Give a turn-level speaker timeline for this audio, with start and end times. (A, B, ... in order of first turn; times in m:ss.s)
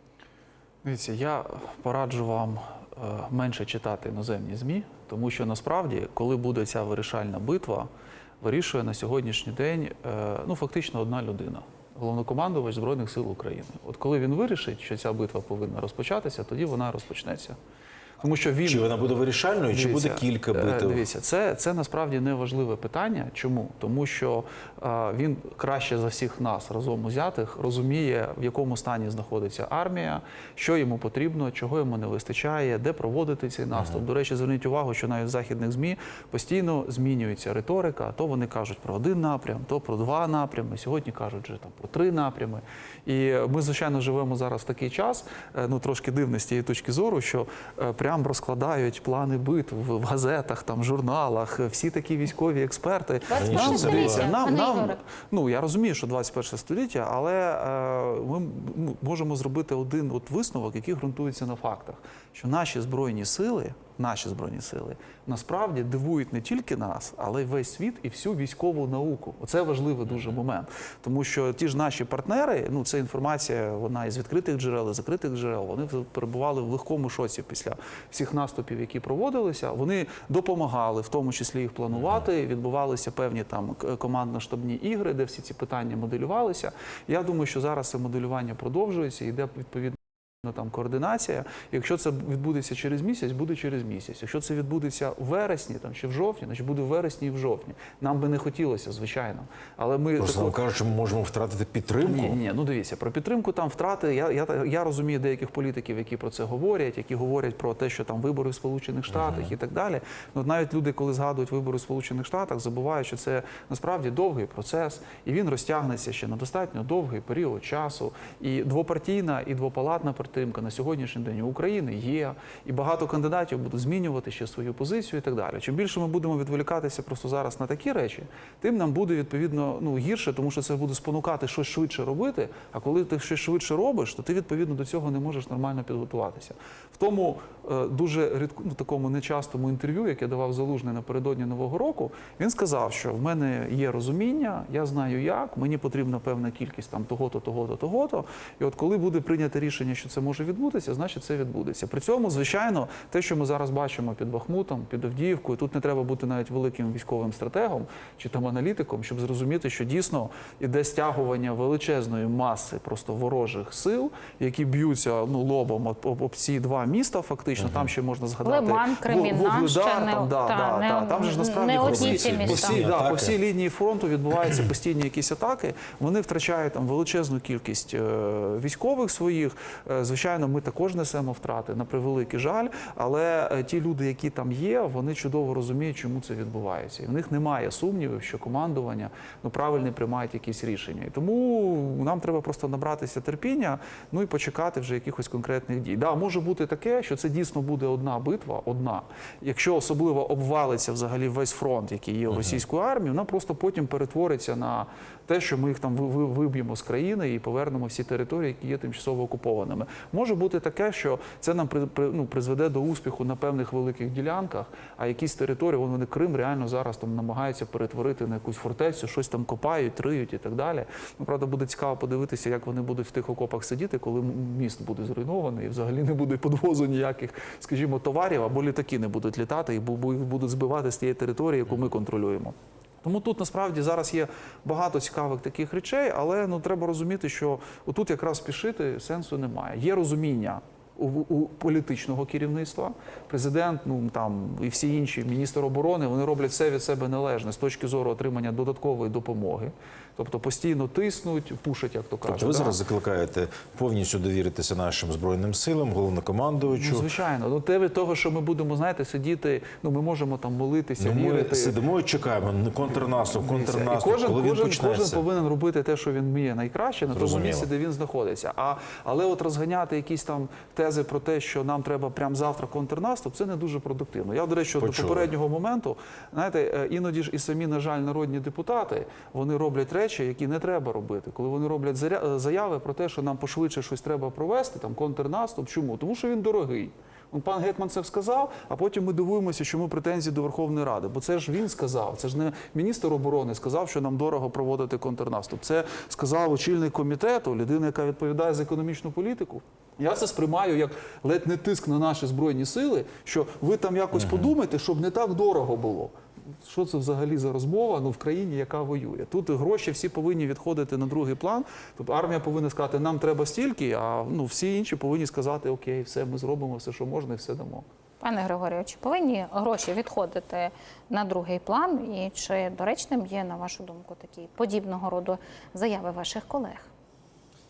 0:00.8-0:07.9 A
0:08.4-0:17.6 A
0:18.2-0:18.9 A
0:18.6-0:21.0 B
0:19.7-1:40.6 A
0:33.7-0:34.0 B
0:53.3-0:55.0 C
0:53.3-0:54.4 B
1:21.9-1:22.2 B
1:40.2-1:42.4 B
1:42.0-4:12.8 A
1:49.1-1:49.5 B
2:47.6-2:47.9 B
2:48.4-2:52.8 C
2:51.7-2:53.4 B
3:22.3-3:22.6 B
4:12.2-4:17.1 B
4:16.6-4:21.8 A
4:21.0-4:25.2 B
4:22.9-5:17.8 A
4:27.1-4:27.7 B
4:34.8-4:35.3 B
5:04.1-5:04.5 B
5:18.2-5:26.9 C